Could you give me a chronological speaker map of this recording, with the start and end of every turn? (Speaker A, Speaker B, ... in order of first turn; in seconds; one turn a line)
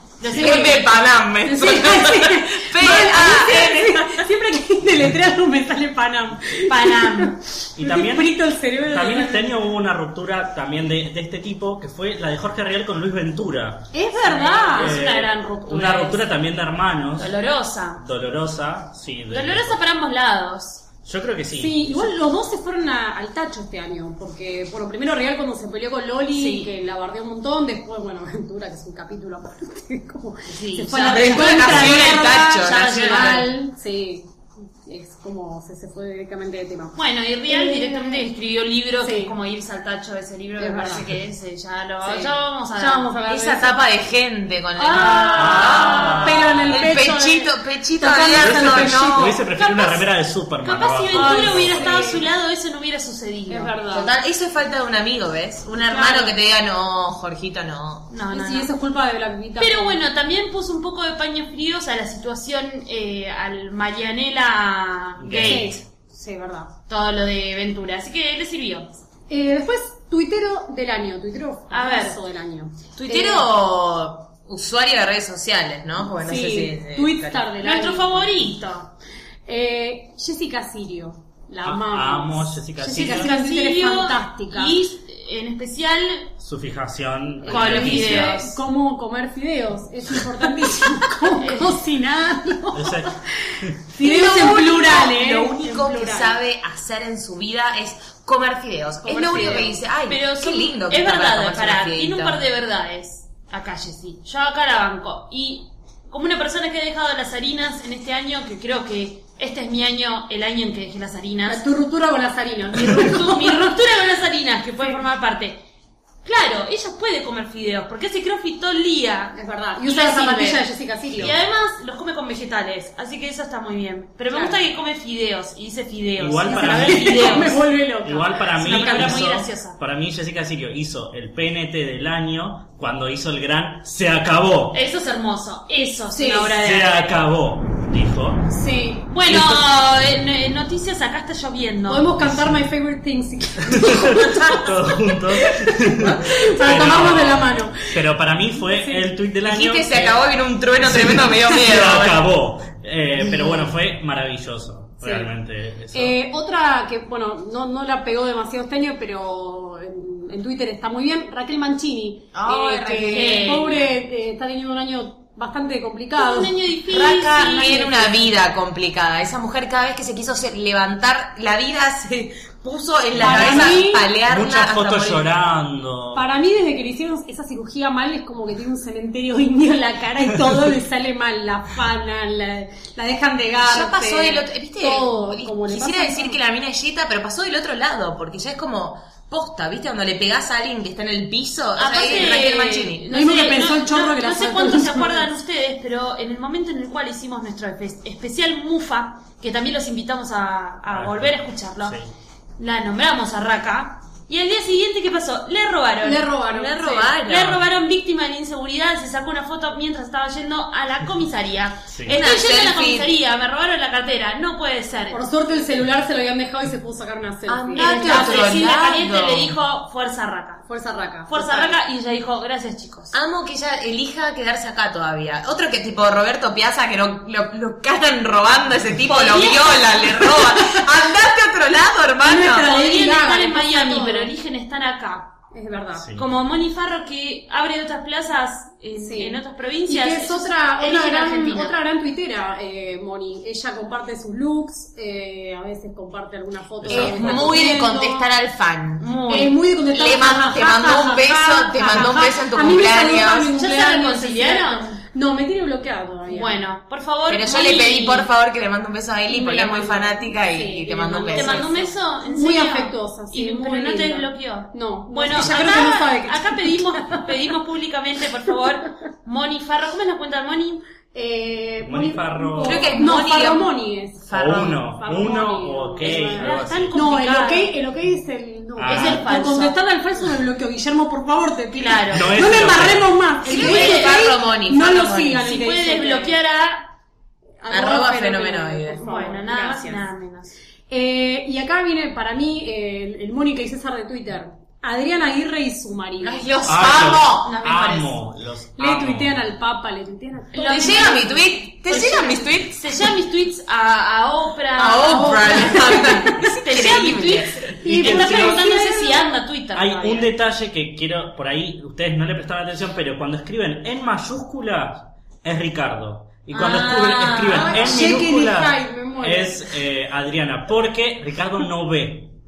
Speaker A: 0.2-0.8
Speaker B: 0.3-4.2
Speaker C: 0.3-0.9
Speaker C: 1.4-9.6
Speaker A: 6.7-7.4
Speaker D: 7.8-17.3
Speaker C: 13.9-15.0
Speaker A: 14.2-16.3
Speaker A: 17.2-18.0
Speaker D: 18.0-19.8
Speaker A: 19.3-20.9
Speaker D: 21.1-22.1
Speaker C: 21.5-34.3
Speaker A: 26.3-26.7
Speaker A: 30.5-33.5
Speaker B: 31.1-33.5
Speaker C: 34.9-38.3
Speaker A: 37.0-43.1
Speaker C: 39.0-39.4
Speaker C: 40.6-41.1
Speaker C: 42.0-43.8
Speaker B: 43.3-49.4
Speaker C: 44.8-49.4
Speaker A: 44.9-46.3
Speaker D: 45.4-47.0
Speaker D: 48.4-52.1
Speaker A: 49.6-50.0
Speaker A: 50.6-53.8
Speaker C: 51.1-52.3
Speaker C: 53.5-54.1
Speaker B: 53.9-58.1
Speaker C: 55.8-56.4
Speaker A: 58.1-58.7
Speaker C: 58.3-60.0
Speaker A: 59.6-65.8
Speaker D: 65.2-65.8
Speaker C: 65.3-66.7
Speaker A: 66.9-68.9
Speaker C: 69.3-73.5
Speaker A: 71.7-72.2
Speaker B: 73.0-77.5
Speaker C: 76.2-78.5
Speaker A: 77.6-78.9
Speaker C: 79.5-84.8
Speaker D: 81.6-83.3
Speaker A: 82.9-86.3
Speaker D: 86.4-88.4
Speaker A: 87.5-88.6
Speaker C: 87.5-93.2
Speaker A: 91.4-91.8
Speaker D: 92.7-93.8
Speaker C: 93.9-96.4
Speaker B: 94.0-102.4
Speaker C: 99.0-99.8
Speaker A: 100.1-111.7
Speaker C: 111.5-113.7
Speaker A: 112.7-115.6
Speaker A: 116.2-120.6
Speaker C: 119.3-121.3
Speaker A: 121.1-127.6
Speaker C: 124.3-124.6
Speaker D: 126.2-134.8
Speaker C: 126.5-129.2
Speaker A: 128.6-129.8
Speaker A: 134.7-137.2
Speaker C: 136.1-136.6
Speaker D: 136.6-138.5
Speaker C: 138.5-139.1
Speaker A: 139.1-142.1
Speaker D: 139.3-139.7
Speaker C: 141.9-149.1
Speaker D: 142.2-142.6
Speaker D: 143.7-156.2
Speaker B: 149.4-152.2
Speaker C: 155.0-155.3
Speaker C: 155.9-166.6
Speaker B: 162.3-163.8
Speaker A: 163.1-163.8
Speaker A: 166.2-168.1
Speaker B: 166.9-175.3
Speaker C: 167.7-168.0
Speaker D: 173.1-176.3
Speaker C: 173.2-174.1
Speaker C: 176.1-186.4
Speaker B: 183.6-193.1
Speaker A: 191.8-202.0
Speaker C: 193.1-195.3
Speaker D: 200.9-202.1
Speaker A: 202.6-206.3
Speaker C: 206.0-207.1
Speaker B: 206.5-207.6
Speaker A: 207.0-215.8
Speaker D: 211.9-212.2
Speaker B: 212.2-213.1
Speaker C: 215.1-218.7
Speaker B: 217.5-219.5
Speaker A: 217.8-220.7
Speaker C: 220.7-221.8
Speaker A: 221.3-223.1
Speaker B: 223.1-232.7
Speaker A: 229.1-230.4
Speaker C: 232.2-234.3
Speaker A: 232.6-235.4
Speaker C: 235.5-236.1
Speaker D: 235.9-236.3
Speaker A: 236.2-241.8
Speaker C: 238.9-248.3
Speaker D: 246.8-247.6
Speaker B: 246.9-249.1
Speaker A: 249.0-249.6
Speaker C: 249.3-256.6
Speaker B: 249.9-253.5
Speaker A: 253.5-255.0
Speaker A: 256.3-258.3
Speaker B: 257.3-261.7
Speaker C: 259.3-267.4
Speaker A: 261.3-270.8
Speaker C: 271.1-274.3
Speaker D: 271.8-273.0
Speaker B: 272.6-273.7
Speaker B: 274.2-274.8
Speaker D: 274.3-277.0
Speaker C: 274.9-286.4
Speaker A: 276.0-277.8
Speaker D: 278.8-279.3
Speaker A: 278.9-279.8
Speaker A: 281.7-282.4
Speaker D: 282.1-283.2
Speaker A: 283.4-284.2
Speaker B: 283.4-285.5
Speaker A: 285.4-286.9
Speaker C: 287.6-290.0
Speaker B: 287.7-289.0
Speaker A: 289.0-290.5
Speaker C: 290.9-296.5
Speaker B: 296.2-297.6
Speaker D: 296.7-299.5
Speaker A: 297.4-298.1
Speaker C: 298.8-301.4
Speaker A: 300.5-310.3
Speaker B: 300.6-302.8
Speaker B: 304.8-307.8
Speaker C: 305.0-306.3
Speaker C: 307.8-309.4
Speaker D: 307.9-308.7
Speaker D: 309.7-322.3
Speaker A: 316.5-318.1
Speaker C: 317.5-319.7